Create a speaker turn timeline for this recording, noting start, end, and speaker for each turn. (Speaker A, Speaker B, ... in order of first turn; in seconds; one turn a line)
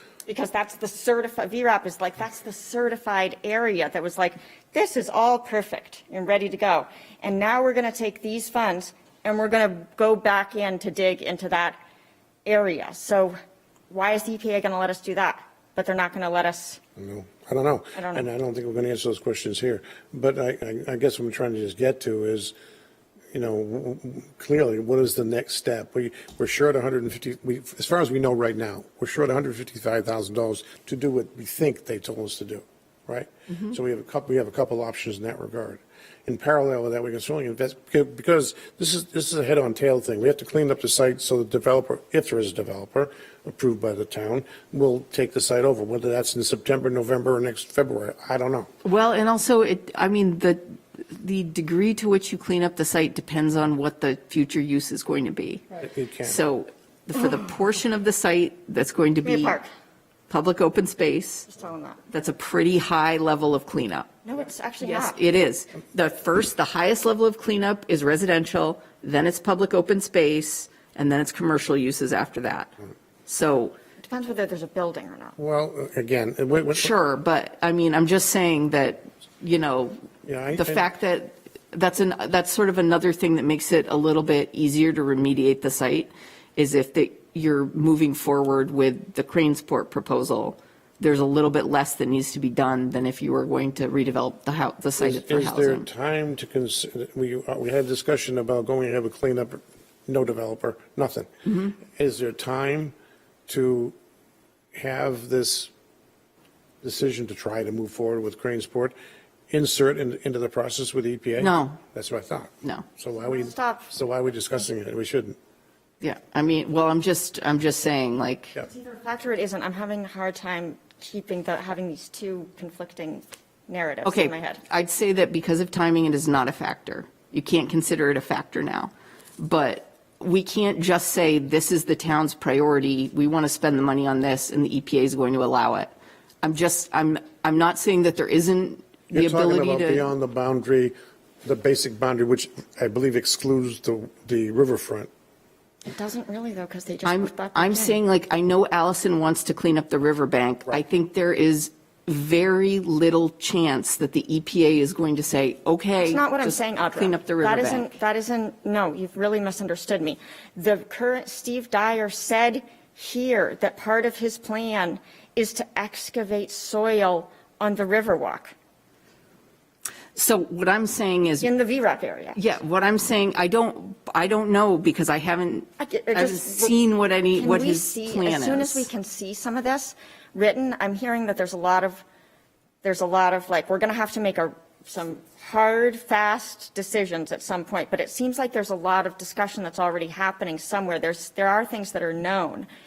Speaker A: 0.2-11.8
Speaker A: 12.4-13.4
Speaker A: 13.9-16.8
Speaker B: 17.0-22.5
Speaker A: 17.9-18.3
Speaker B: 23.3-48.7
Speaker C: 48.8-55.7
Speaker B: 55.8-56.4
Speaker C: 56.2-59.6
Speaker A: 59.2-59.7
Speaker C: 60.3-61.5
Speaker A: 61.5-62.0
Speaker C: 62.1-64.1
Speaker A: 64.2-65.2
Speaker C: 64.8-72.7
Speaker C: 73.3-73.8
Speaker A: 74.0-75.4
Speaker B: 75.4-76.9
Speaker C: 76.7-80.0
Speaker B: 80.2-80.8
Speaker C: 80.5-95.8
Speaker B: 95.0-102.9
Speaker C: 101.5-101.7
Speaker B: 103.5-103.9
Speaker B: 104.7-105.7
Speaker B: 106.8-108.9
Speaker B: 109.5-115.4
Speaker C: 111.4-111.8
Speaker A: 113.2-113.9
Speaker C: 116.0-118.5
Speaker A: 118.6-124.6
Speaker C: 124.0-140.1
Speaker B: 139.1-145.1
Speaker A: 145.9-148.0
Speaker C: 147.0-157.9
Speaker A: 156.0-168.5
Speaker C: 170.1-171.5
Speaker A: 171.4-172.4
Speaker C: 172.3-178.9
Speaker A: 175.8-176.7
Speaker A: 177.3-182.0
Speaker A: 182.8-192.7